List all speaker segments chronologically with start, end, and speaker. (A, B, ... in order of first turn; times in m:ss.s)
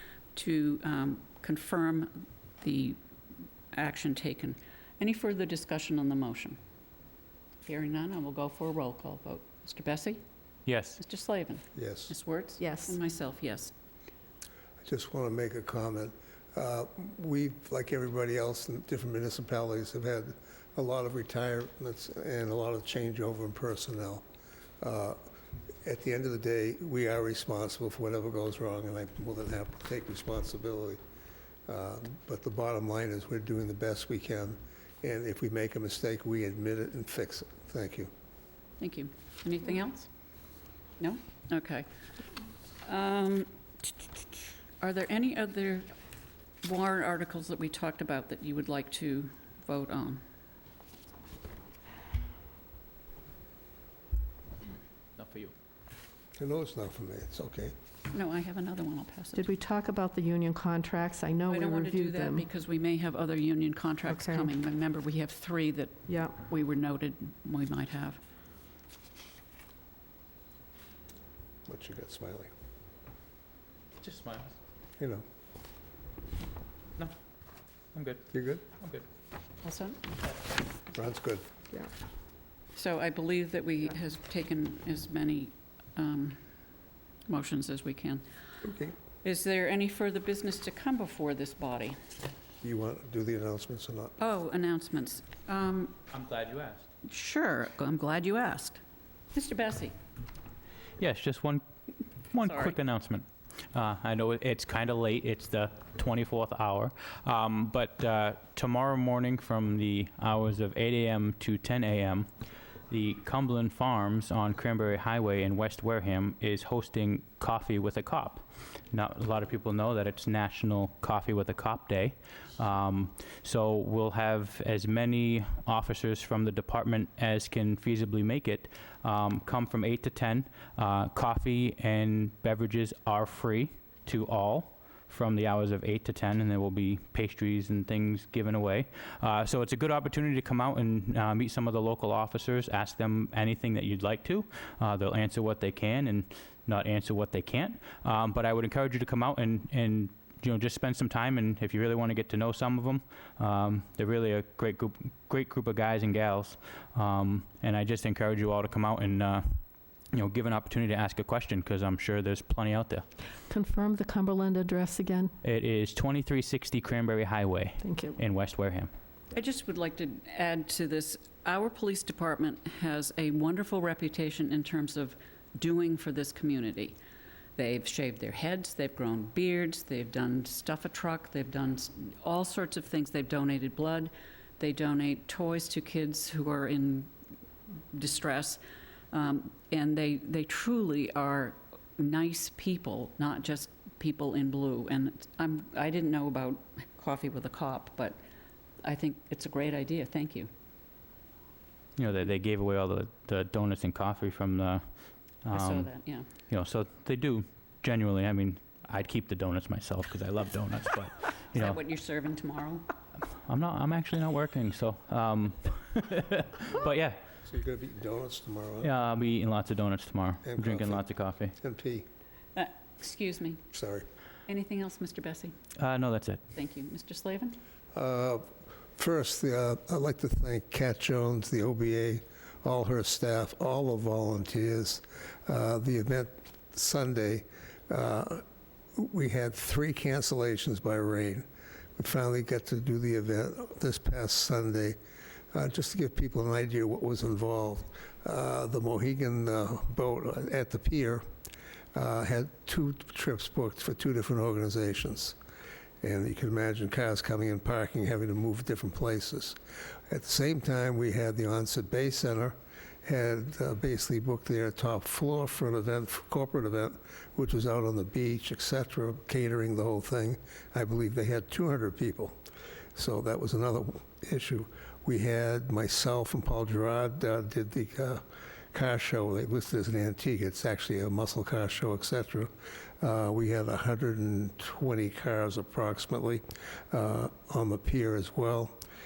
0:00.3-0:03.0 A
0:03.7-0:06.6 A
0:07.6-0:10.2 A
0:10.6-0:11.0 B
0:11.0-0:13.7 A
0:11.7-0:12.1 C
0:12.6-0:13.0 D
0:14.8-0:24.2 C
0:24.8-0:25.2 C
0:25.8-0:31.0 C
0:31.7-0:38.1 C
0:38.8-0:40.1 A
0:41.0-0:41.9 A
0:42.8-0:45.9 A
0:46.6-0:50.2 A
0:55.2-0:55.5 B
0:56.4-0:57.7 C
0:58.1-0:59.6 A
0:59.3-1:02.4 D
1:01.5-1:08.2 A
1:04.0-1:04.5 D
1:06.1-1:06.4 D
1:11.7-1:12.5 C
1:14.0-1:14.6 B
1:15.0-1:15.2 C
1:17.9-1:19.0 B
1:18.3-1:18.6 C
1:19.6-1:20.1 A
1:20.9-1:21.4 C
1:22.7-1:26.4 A
1:27.3-1:28.2 A
1:28.6-1:29.0 C
1:29.2-1:32.0 A
1:32.6-1:34.1 C
1:34.2-1:36.0 A
1:36.1-1:36.9 B
1:37.0-1:38.8 A
1:39.3-1:39.9 A
1:41.0-1:41.6 B
1:42.3-1:52.3 B
1:42.4-1:42.8 A
1:52.9-2:39.5 B
2:40.1-2:43.0 B
2:43.5-2:45.3 D
2:45.4-2:48.9 B
2:47.8-2:48.2 D
2:49.3-2:57.0 A
2:57.6-3:07.1 A
3:07.9-3:08.6 A
3:09.1-3:18.2 A
3:18.8-3:20.5 A
3:22.0-3:24.8 B
3:25.4-3:25.9 B
3:25.5-3:26.3 A
3:26.5-3:31.8 B
3:31.5-3:32.9 A
3:33.3-3:37.2 B
3:37.4-3:38.9 C
3:38.8-3:41.5 B
3:40.4-3:41.0 C
3:41.6-3:42.0 C
3:42.6-3:43.6 A
3:43.7-3:44.0 C
3:44.5-3:45.5 A
3:45.8-3:46.4 B
3:46.5-3:47.6 A
3:47.9-3:58.4 C
3:59.0-4:01.4 C
4:02.0-4:05.0 C
4:05.5-4:11.2 C
4:11.9-4:15.4 C
4:16.0-4:19.6 C
4:20.1-4:32.3 C
4:33.0-4:38.2 C
4:38.7-4:48.8 C